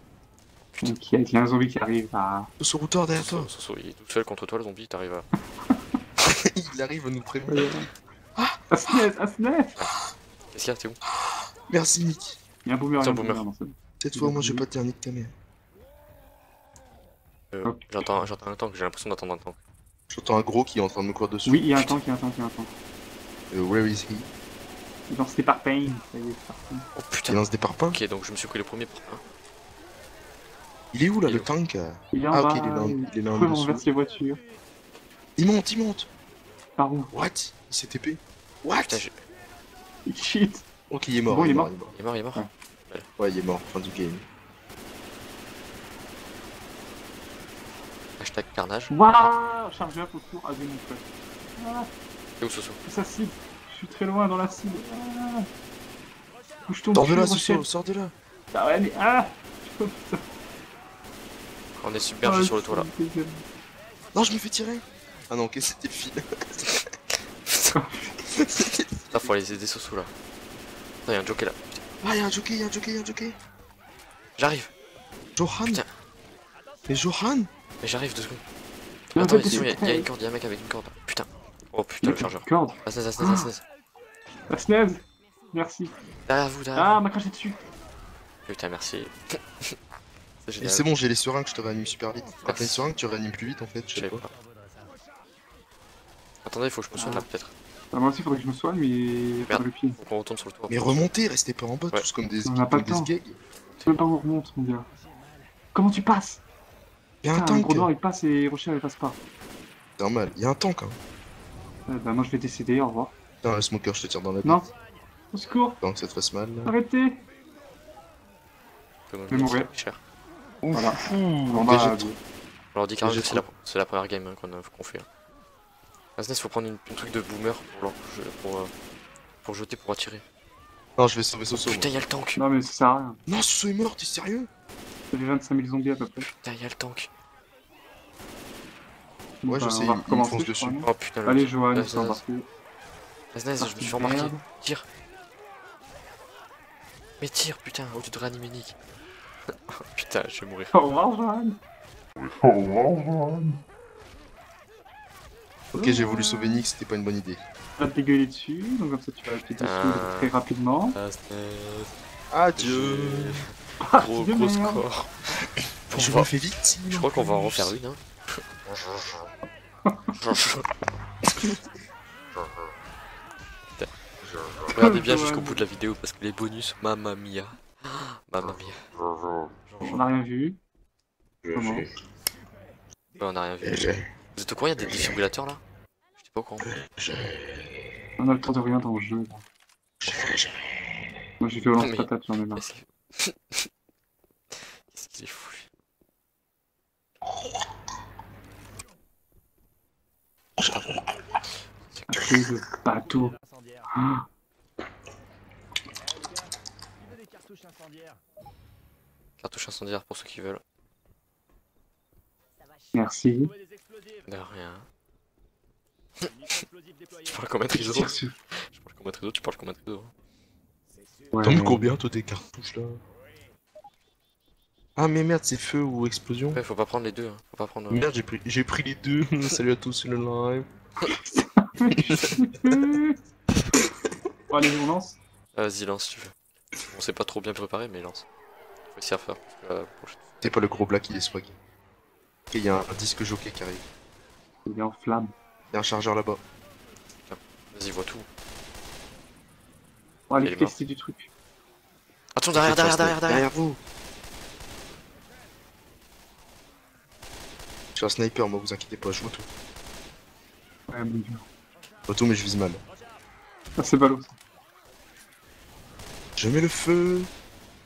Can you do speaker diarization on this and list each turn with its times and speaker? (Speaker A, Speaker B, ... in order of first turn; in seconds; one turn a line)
Speaker A: 0.8-2.5
Speaker B: 2.6-3.5
Speaker C: 3.1-5.3
Speaker B: 6.3-7.7
Speaker A: 7.5-7.9
Speaker A: 8.7-9.7
Speaker C: 10.5-11.0
Speaker B: 11.7-12.4
Speaker A: 12.6-14.7
Speaker C: 13.0-13.4
Speaker B: 14.0-15.3
Speaker C: 17.5-19.6
Speaker B: 20.1-21.9
Speaker A: 21.4-22.7
Speaker B: 23.5-24.3
Speaker A: 25.1-26.9
Speaker C: 26.9-29.2
Speaker B: 27.3-28.0
Speaker B: 30.9-33.9
Speaker A: 32.1-34.4
Speaker B: 35.4-36.1
Speaker A: 36.8-37.1
Speaker B: 37.1-39.0
Speaker C: 38.8-39.1
Speaker A: 40.0-40.6
Speaker B: 40.9-41.9
Speaker A: 41.3-41.7
Speaker C: 41.9-43.0
Speaker B: 43.2-44.2
Speaker C: 48.2-49.3
Speaker A: 48.9-51.9
Speaker C: 52.4-52.8
Speaker A: 52.8-55.5
Speaker A: 56.6-57.6
Speaker B: 56.9-58.1
Speaker A: 58.5-60.2
Speaker C: 61.8-62.9
Speaker A: 62.2-63.4
Speaker B: 64.1-66.8
Speaker C: 67.5-67.7
Speaker A: 67.7-68.2
Speaker B: 68.6-69.2
Speaker C: 69.0-70.1
Speaker C: 71.0-71.8
Speaker B: 72.0-73.3
Speaker C: 74.4-74.7
Speaker B: 75.3-75.8
Speaker B: 76.9-77.5
Speaker C: 77.8-78.4
Speaker C: 79.1-83.6
Speaker A: 79.1-80.1
Speaker A: 82.0-83.5
Speaker A: 84.5-85.9
Speaker C: 86.2-87.0
Speaker A: 86.7-87.6
Speaker C: 88.5-89.7
Speaker C: 90.4-90.8
Speaker B: 90.6-94.2
Speaker C: 92.4-92.9
Speaker C: 93.9-94.3
Speaker C: 96.4-97.5
Speaker A: 96.9-97.2
Speaker A: 97.9-100.0
Speaker C: 99.4-101.1
Speaker B: 100.7-103.4
Speaker A: 102.4-103.1
Speaker A: 103.8-104.9
Speaker A: 105.7-106.4
Speaker B: 107.2-107.9
Speaker A: 107.3-109.2
Speaker B: 110.0-111.0
Speaker A: 111.9-113.1
Speaker B: 113.4-114.6
Speaker A: 114.4-114.7
Speaker A: 115.3-115.8
Speaker B: 115.8-116.7
Speaker A: 116.6-117.2
Speaker C: 119.1-120.0
Speaker A: 119.3-119.7
Speaker A: 120.7-122.2
Speaker B: 121.5-122.1
Speaker C: 122.7-125.0
Speaker B: 123.0-123.4
Speaker C: 126.2-128.7
Speaker C: 129.4-130.2
Speaker B: 131.0-131.9
Speaker C: 131.6-132.4
Speaker A: 132.3-133.2
Speaker B: 133.2-134.5
Speaker A: 135.1-136.3
Speaker C: 136.2-137.1
Speaker A: 139.4-142.4
Speaker B: 139.4-140.8
Speaker C: 140.8-142.2
Speaker C: 143.3-144.8
Speaker A: 143.6-144.4
Speaker C: 147.2-148.8
Speaker C: 149.5-150.7
Speaker A: 150.7-151.6
Speaker B: 155.7-157.4
Speaker A: 155.7-156.6
Speaker A: 157.8-161.0
Speaker C: 159.6-160.3
Speaker C: 160.9-161.9
Speaker B: 162.3-163.4
Speaker C: 162.6-165.1
Speaker A: 163.8-164.8
Speaker C: 165.9-166.3
Speaker B: 165.9-167.7
Speaker C: 166.9-168.4
Speaker C: 170.2-170.7
Speaker C: 174.7-178.8
Speaker A: 174.7-175.6
Speaker C: 179.7-180.0
Speaker A: 179.8-180.6
Speaker A: 181.5-181.9
Speaker C: 183.2-185.6
Speaker B: 183.6-184.0
Speaker B: 184.8-185.2
Speaker C: 186.2-186.7
Speaker B: 186.6-187.3
Speaker A: 188.2-189.4
Speaker B: 190.0-190.6
Speaker A: 191.4-192.6
Speaker C: 191.8-193.7
Speaker C: 194.5-195.7
Speaker B: 200.6-201.0
Speaker C: 201.9-202.2
Speaker A: 202.1-203.3
Speaker A: 203.9-204.2
Speaker C: 209.4-210.6
Speaker A: 212.9-213.5
Speaker C: 214.3-214.9
Speaker C: 217.2-220.1
Speaker A: 217.7-218.3
Speaker A: 221.3-221.9
Speaker B: 221.4-223.0
Speaker B: 224.9-226.6
Speaker C: 226.5-228.0
Speaker B: 227.9-230.7
Speaker A: 231.1-233.2
Speaker B: 232.0-232.8
Speaker A: 234.5-235.2
Speaker C: 235.5-238.2
Speaker C: 238.9-240.2
Speaker B: 240.4-241.5
Speaker B: 242.5-243.8
Speaker A: 244.6-245.3
Speaker B: 245.7-246.4
Speaker C: 247.2-248.2
Speaker A: 250.3-251.3
Speaker C: 250.4-250.7
Speaker C: 252.3-253.5
Speaker B: 252.5-253.8
Speaker B: 257.9-259.5
Speaker A: 260.9-261.4
Speaker B: 262.1-262.8
Speaker A: 263.8-264.4
Speaker B: 266.4-267.3